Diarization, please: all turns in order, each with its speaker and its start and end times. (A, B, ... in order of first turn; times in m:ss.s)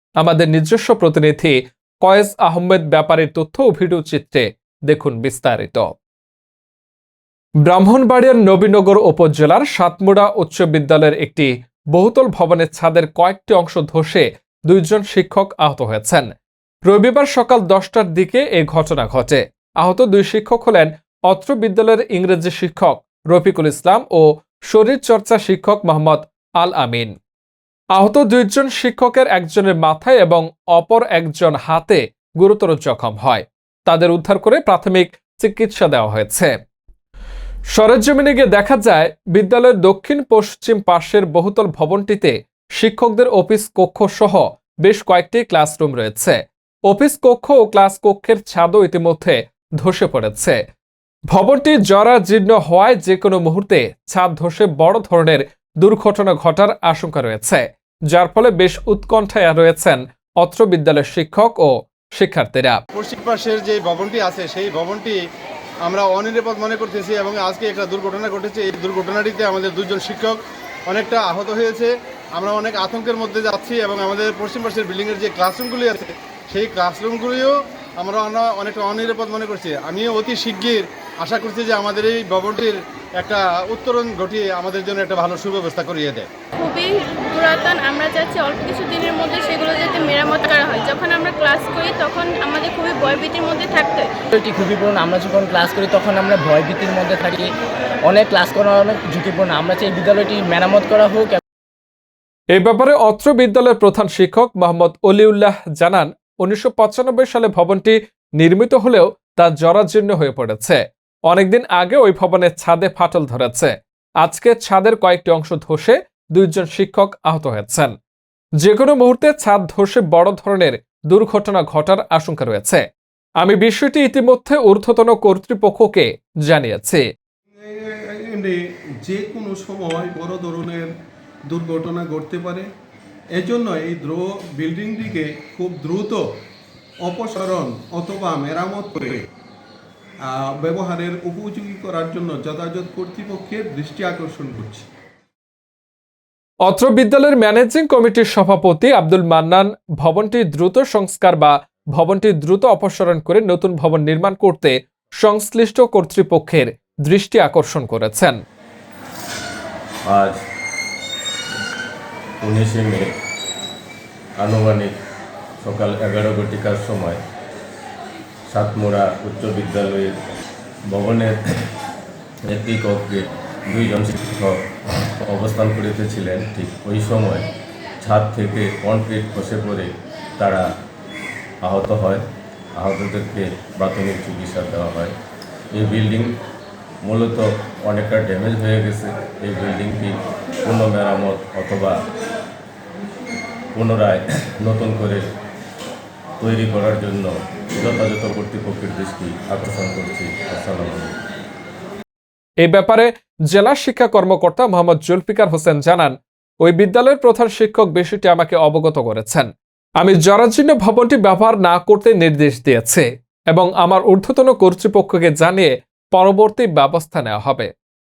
0:00.2-0:06.0 A
0:07.6-0:16.3 A
0:16.8-0:27.2 A
0:28.0-0:36.6 A
0:37.7-0:50.6 A
0:51.3-1:02.8 A
1:02.9-1:05.2 B
1:05.9-1:26.3 B
1:26.6-1:34.1 C
1:34.3-1:37.5 D
1:38.0-1:41.4 D
1:42.5-1:57.9 A
1:58.6-2:02.8 A
2:03.4-2:07.0 A
2:07.6-2:11.0 E
2:11.5-2:12.7 E
2:13.4-2:16.3 E
2:17.0-2:19.3 E
2:20.2-2:24.9 E
2:26.6-2:38.4 A
2:40.1-2:40.4 F
2:42.4-2:43.1 F
2:44.4-2:45.0 F
2:45.6-2:47.2 F
2:48.5-2:50.2 F
2:50.9-2:51.6 F
2:52.4-2:54.7 F
2:55.2-2:57.5 F
2:58.0-3:00.7 F
3:01.6-3:02.2 F
3:02.8-3:05.1 F
3:05.7-3:06.4 F
3:07.0-3:12.0 F
3:13.7-3:15.2 F
3:16.4-3:21.2 F
3:22.6-3:37.7 A